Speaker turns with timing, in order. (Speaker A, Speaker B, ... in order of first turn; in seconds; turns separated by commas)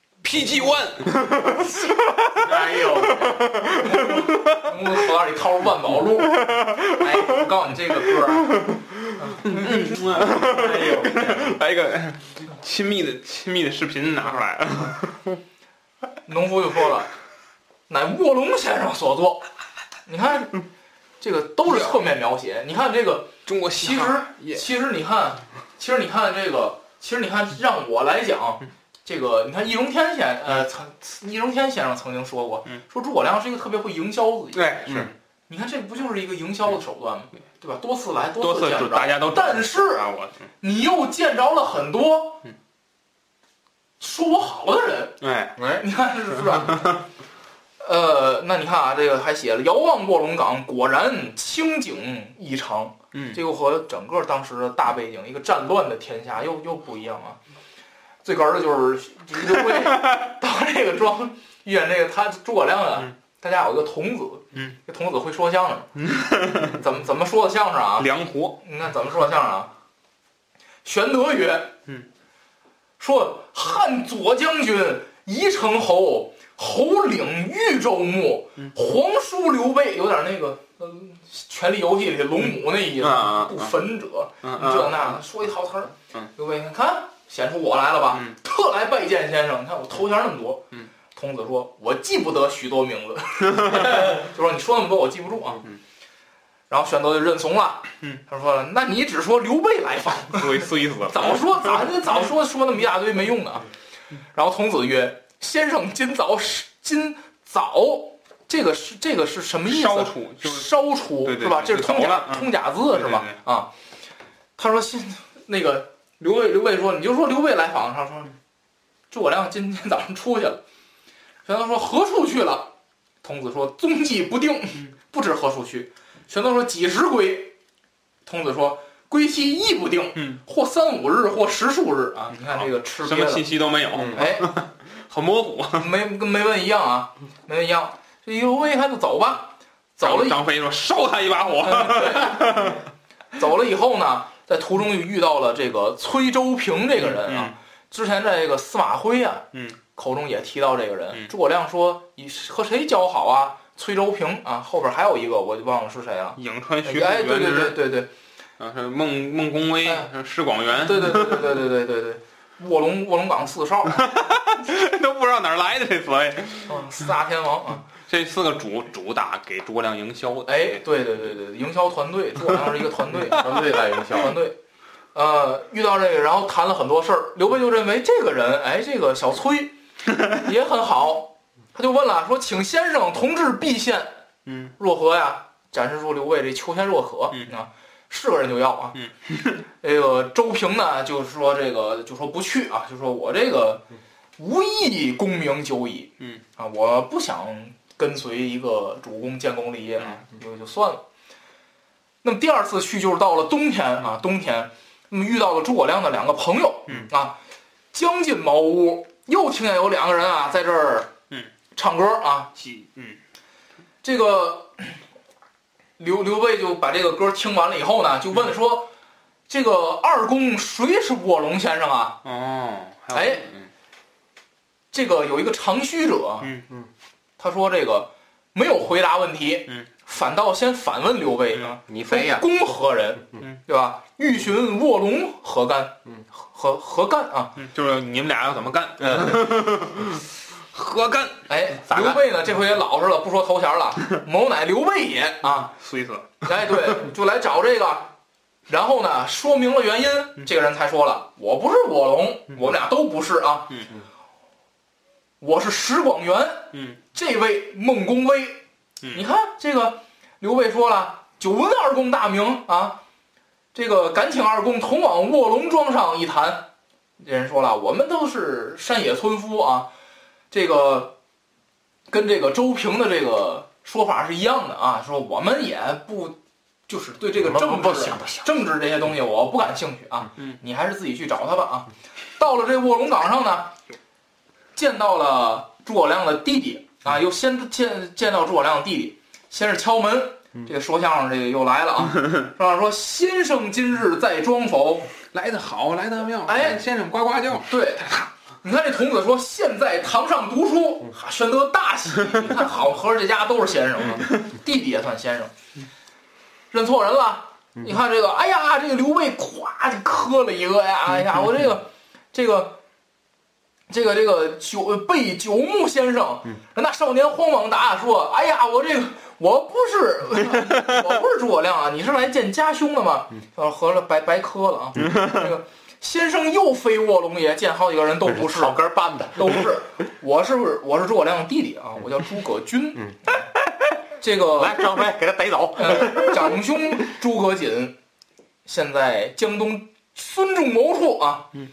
Speaker A: 0.2-4.7, Speaker B: 2.3-3.5, Speaker C: 3.7-8.6, Speaker A: 6.3-7.3, Speaker A: 8.6-15.4, Speaker C: 9.2-10.0, Speaker B: 10.2-11.6, Speaker C: 16.2-17.1, Speaker C: 17.9-19.5, Speaker C: 20.1-20.6, Speaker C: 21.2-34.9, Speaker A: 21.7-22.0, Speaker A: 23.4-24.6, Speaker A: 34.5-35.1, Speaker C: 35.5-40.0, Speaker A: 38.4-40.5, Speaker C: 40.6-42.4, Speaker C: 44.0-45.1, Speaker A: 45.2-45.5, Speaker C: 45.8-47.0, Speaker C: 47.8-57.4, Speaker A: 53.1-53.4, Speaker C: 58.2-65.9, Speaker A: 59.7-60.2, Speaker A: 66.0-66.8, Speaker C: 66.6-68.1, Speaker A: 68.0-68.6, Speaker C: 68.6-69.7, Speaker C: 70.8-71.7, Speaker C: 73.0-95.6, Speaker A: 83.0-83.7, Speaker A: 84.4-85.2, Speaker A: 93.6-94.1, Speaker C: 96.7-103.7, Speaker A: 100.3-101.7, Speaker C: 104.3-113.7, Speaker A: 109.7-110.7, Speaker A: 111.2-113.4, Speaker C: 114.6-118.3, Speaker C: 119.1-120.6, Speaker C: 121.4-127.5, Speaker C: 128.2-133.5, Speaker A: 132.4-135.9, Speaker C: 134.1-134.5, Speaker C: 135.7-140.4, Speaker A: 140.0-142.8, Speaker C: 141.6-142.8, Speaker C: 143.3-158.1, Speaker A: 147.0-147.5, Speaker A: 149.5-149.8, Speaker A: 156.4-157.8, Speaker A: 158.6-161.6, Speaker C: 159.8-160.1, Speaker C: 160.7-164.1, Speaker A: 164.0-167.0, Speaker C: 166.7-167.8, Speaker A: 168.0-170.8, Speaker C: 170.4-174.6, Speaker B: 173.1-174.4, Speaker C: 175.1-179.7, Speaker C: 180.2-184.2, Speaker A: 184.4-184.7, Speaker C: 184.8-189.0, Speaker A: 188.9-189.6, Speaker C: 189.8-193.8, Speaker C: 194.4-201.0, Speaker C: 202.2-207.4, Speaker C: 207.9-211.1, Speaker C: 211.7-212.5, Speaker A: 212.5-213.2, Speaker C: 214.0-215.0, Speaker C: 216.0-218.9, Speaker C: 219.5-222.2, Speaker A: 222.2-223.7, Speaker C: 223.1-223.5, Speaker C: 224.9-226.5, Speaker C: 227.4-237.6, Speaker B: 231.9-232.4, Speaker A: 237.6-242.2, Speaker B: 239.0-239.4, Speaker C: 241.5-245.7, Speaker A: 245.7-246.9, Speaker C: 246.4-248.1, Speaker C: 248.7-253.7, Speaker C: 255.4-258.6, Speaker A: 256.7-257.0, Speaker C: 259.1-263.0, Speaker C: 263.7-269.9, Speaker C: 270.5-271.1, Speaker C: 272.1-283.8, Speaker B: 277.4-278.5, Speaker C: 284.7-295.1, Speaker A: 295.3-298.3, Speaker C: 296.4-296.8, Speaker C: 297.6-298.1, Speaker C: 298.6-305.5, Speaker C: 306.7-312.8, Speaker C: 313.9-328.8, Speaker B: 328.3-329.6, Speaker C: 329.3-333.4, Speaker C: 334.2-335.0, Speaker B: 334.6-336.6, Speaker C: 335.8-337.9, Speaker C: 338.6-341.5